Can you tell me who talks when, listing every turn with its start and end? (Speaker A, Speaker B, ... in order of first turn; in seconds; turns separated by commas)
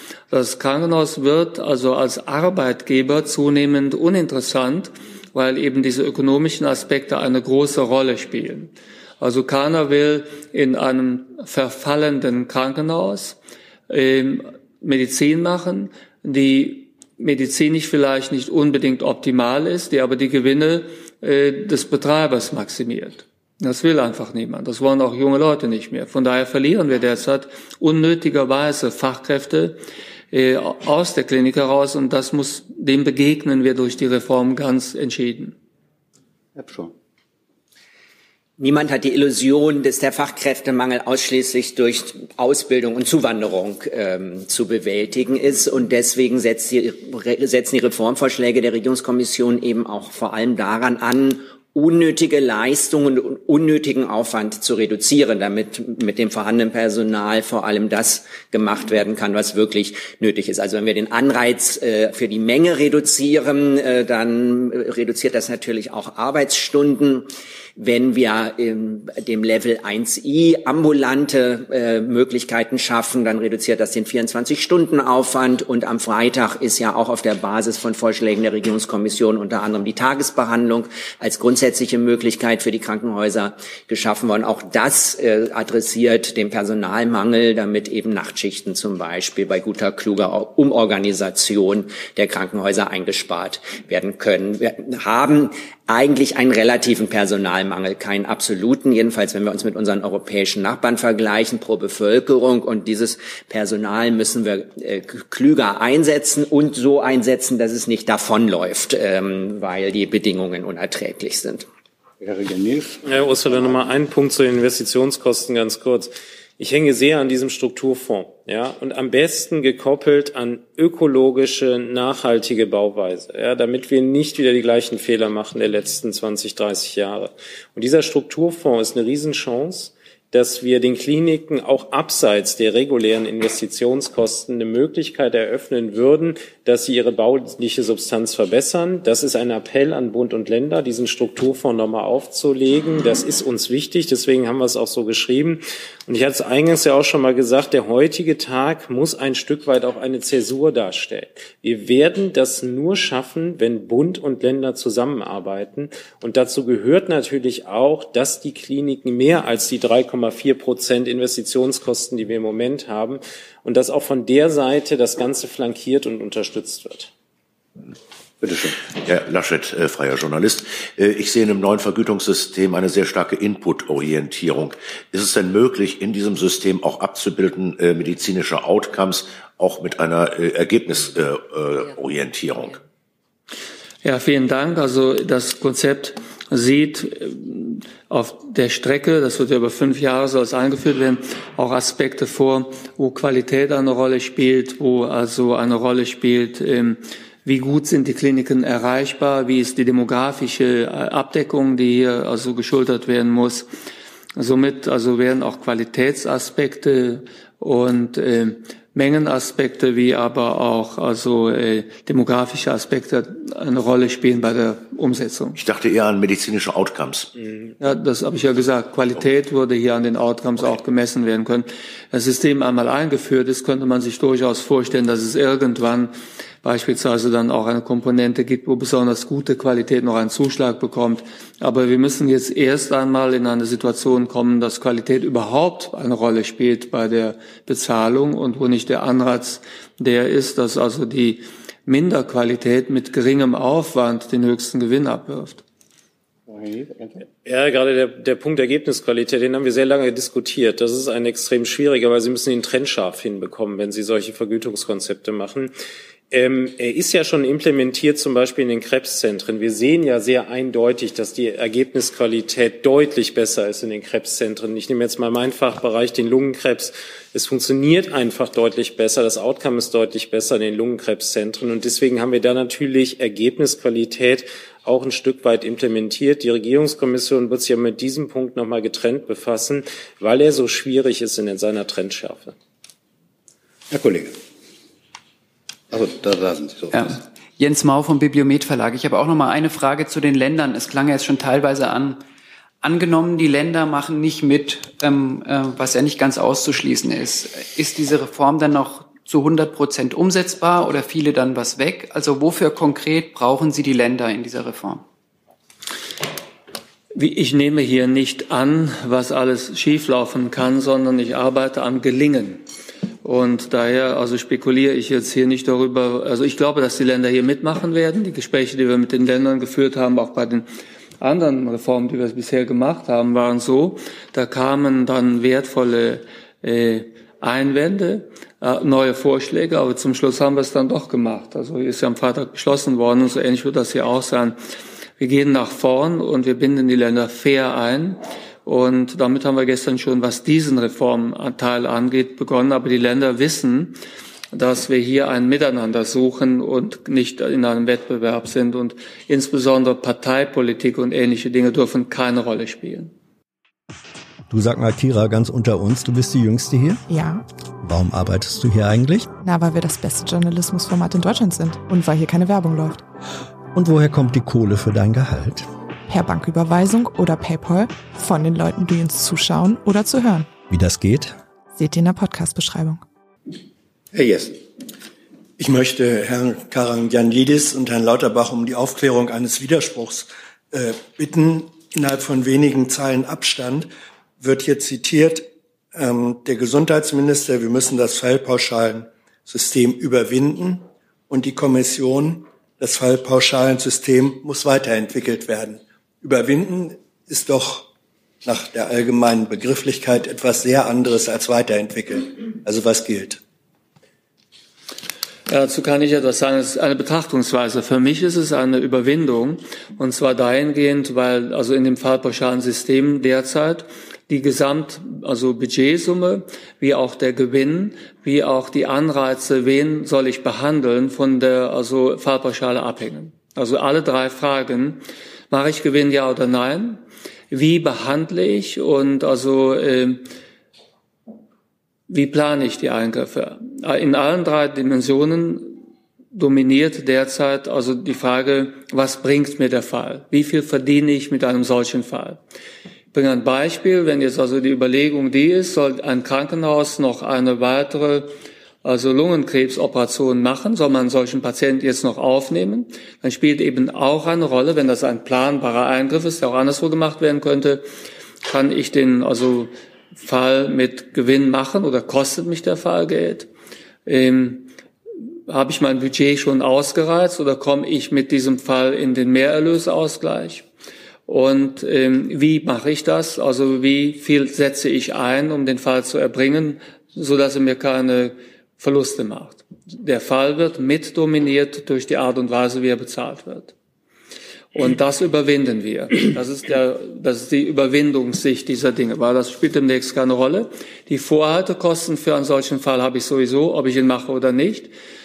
Speaker A: 0.3-13.3, Speaker A: 13.9-29.8, Speaker A: 30.3-35.5, Speaker B: 36.5-36.9, Speaker C: 38.6-111.7, Speaker B: 112.2-113.0, Speaker D: 113.0-167.1, Speaker B: 168.4-168.8, Speaker E: 169.0-182.8, Speaker A: 184.0-203.7, Speaker A: 204.3-215.6, Speaker E: 215.6-217.3, Speaker A: 217.8-245.6, Speaker B: 246.5-247.2, Speaker D: 247.4-255.7, Speaker D: 256.3-282.5, Speaker B: 283.9-284.4, Speaker B: 285.9-287.1, Speaker F: 286.9-292.2, Speaker F: 292.8-305.0, Speaker A: 307.1-312.6, Speaker A: 313.2-320.6, Speaker A: 321.2-334.6, Speaker A: 335.2-344.0, Speaker A: 344.5-353.1, Speaker G: 354.5-357.0, Speaker H: 357.1-357.4, Speaker G: 357.8-359.4, Speaker H: 359.4-363.0, Speaker G: 363.7-365.7, Speaker H: 366.1-370.5, Speaker G: 370.7-371.4, Speaker H: 371.8-373.0, Speaker B: 374.1-374.6, Speaker I: 375.6-383.9, Speaker I: 384.4-397.8, Speaker I: 398.4-403.4, Speaker A: 405.5-430.2, Speaker A: 432.1-435.8, Speaker A: 436.3-442.4, Speaker A: 443.1-448.3, Speaker A: 448.8-457.8, Speaker A: 458.5-463.5, Speaker A: 464.1-464.7, Speaker A: 465.5-470.6, Speaker A: 471.3-483.7, Speaker A: 484.7-494.9